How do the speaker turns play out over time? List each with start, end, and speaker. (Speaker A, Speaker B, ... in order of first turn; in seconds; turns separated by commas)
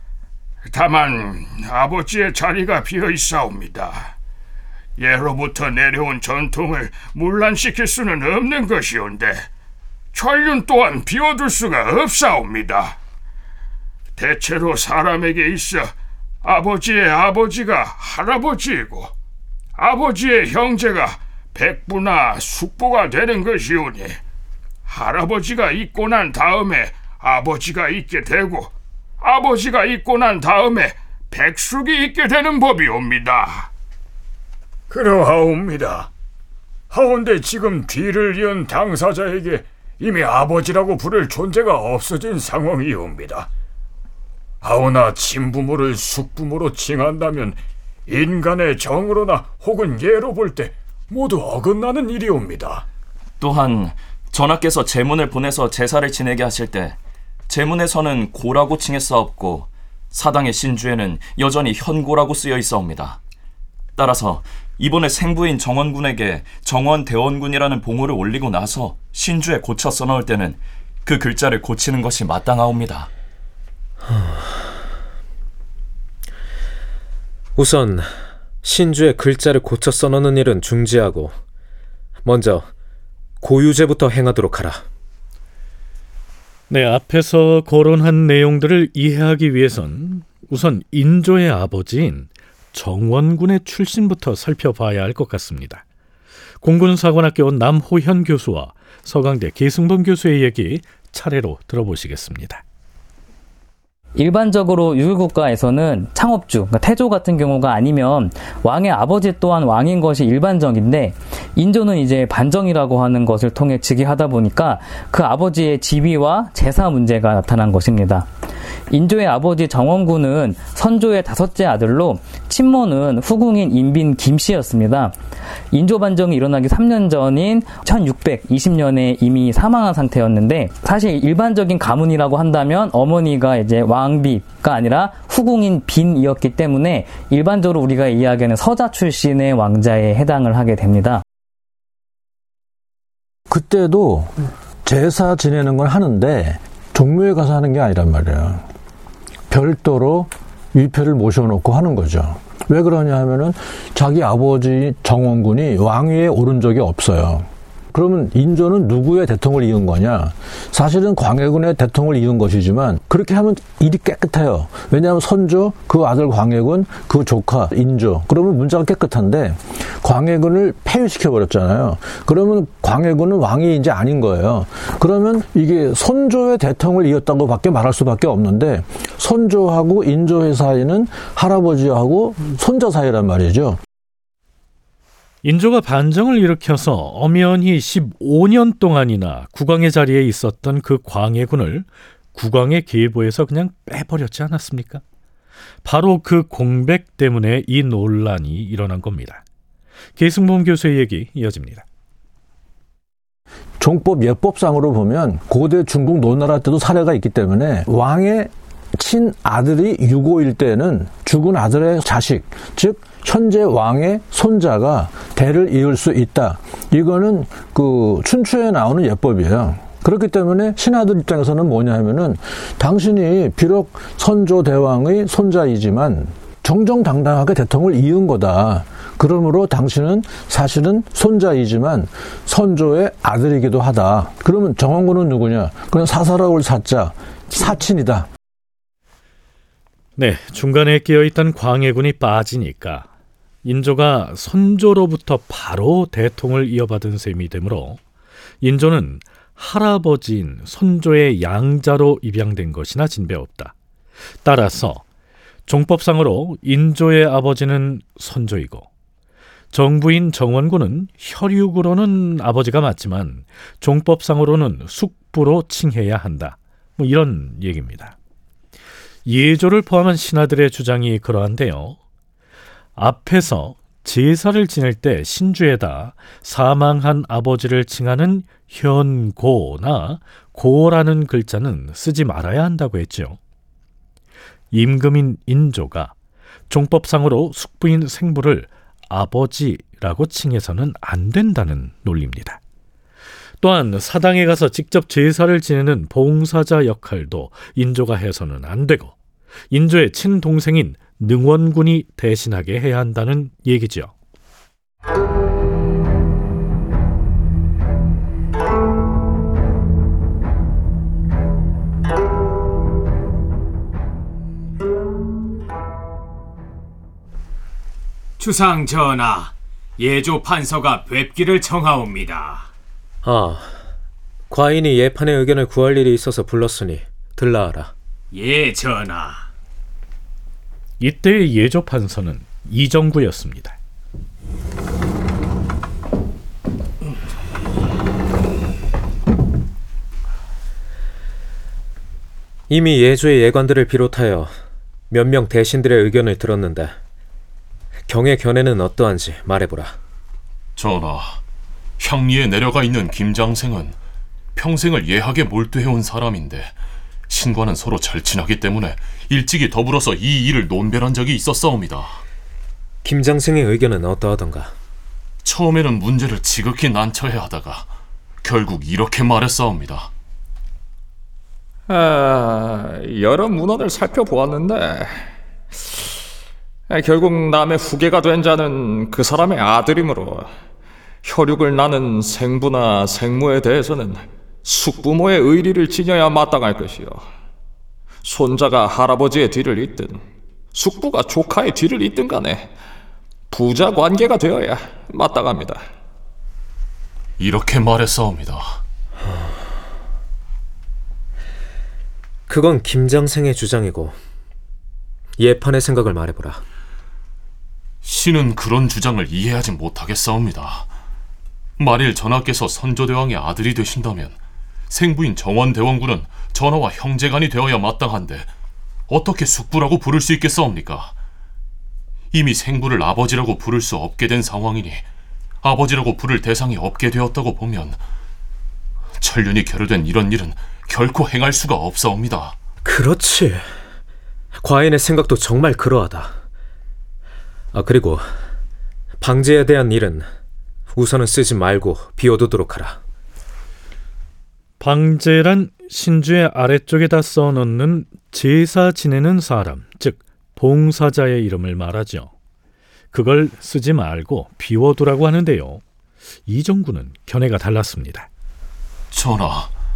Speaker A: 0.7-4.1, Speaker A: 5.0-9.5, Speaker A: 10.1-13.0, Speaker A: 14.2-15.9, Speaker A: 16.4-19.1, Speaker A: 19.8-24.2, Speaker A: 24.9-33.7, Speaker B: 34.9-36.1, Speaker B: 36.9-43.5, Speaker B: 44.6-52.8, Speaker C: 53.4-57.0, Speaker C: 57.5-63.2, Speaker C: 64.0-73.1, Speaker D: 74.0-74.6, Speaker D: 77.5-78.1, Speaker D: 78.6-81.3, Speaker D: 82.2-82.7, Speaker D: 83.4-84.8, Speaker E: 86.7-95.8, Speaker E: 96.6-102.6, Speaker F: 104.2-118.3, Speaker F: 118.9-125.1, Speaker F: 125.7-141.2, Speaker G: 143.5-144.3, Speaker G: 144.8-148.6, Speaker G: 149.5-183.8, Speaker E: 185.4-195.0, Speaker E: 195.8-199.4, Speaker E: 200.2-201.8, Speaker G: 203.8-238.3, Speaker E: 240.2-243.1, Speaker E: 243.6-248.0, Speaker E: 248.6-253.7, Speaker E: 254.4-255.0, Speaker E: 255.7-258.9, Speaker E: 259.7-268.1, Speaker E: 269.2-272.0, Speaker E: 273.0-283.4, Speaker E: 284.7-286.1, Speaker E: 286.7-292.6, Speaker E: 293.6-299.2, Speaker E: 299.7-304.1, Speaker H: 318.4-322.6, Speaker D: 323.2-323.8, Speaker D: 324.5-327.9, Speaker H: 328.4-329.4, Speaker E: 331.0-333.8, Speaker D: 342.7-344.5, Speaker D: 345.1-347.0, Speaker D: 348.1-350.0, Speaker I: 350.8-351.4, Speaker I: 352.0-354.0, Speaker I: 354.5-356.8, Speaker I: 357.3-362.2, Speaker D: 363.0-364.7, Speaker I: 365.4-367.9, Speaker I: 368.4-370.1, Speaker J: 371.9-375.1, Speaker J: 376.9-380.5, Speaker J: 381.2-387.2, Speaker J: 388.2-390.2, Speaker J: 390.7-392.7, Speaker J: 393.5-395.8, Speaker I: 397.4-398.8, Speaker D: 402.5-404.2, Speaker D: 405.4-406.6, Speaker I: 408.0-410.9, Speaker I: 411.8-418.5, Speaker I: 419.1-421.1, Speaker I: 422.3-425.1, Speaker I: 425.6-428.0, Speaker I: 429.2-432.6, Speaker D: 432.8-433.6, Speaker D: 434.6-436.4, Speaker D: 437.7-438.3, Speaker D: 439.2-440.3, Speaker D: 440.9-443.0, Speaker E: 444.8-452.3, Speaker E: 453.1-455.8, Speaker E: 456.5-458.3, Speaker I: 459.1-459.7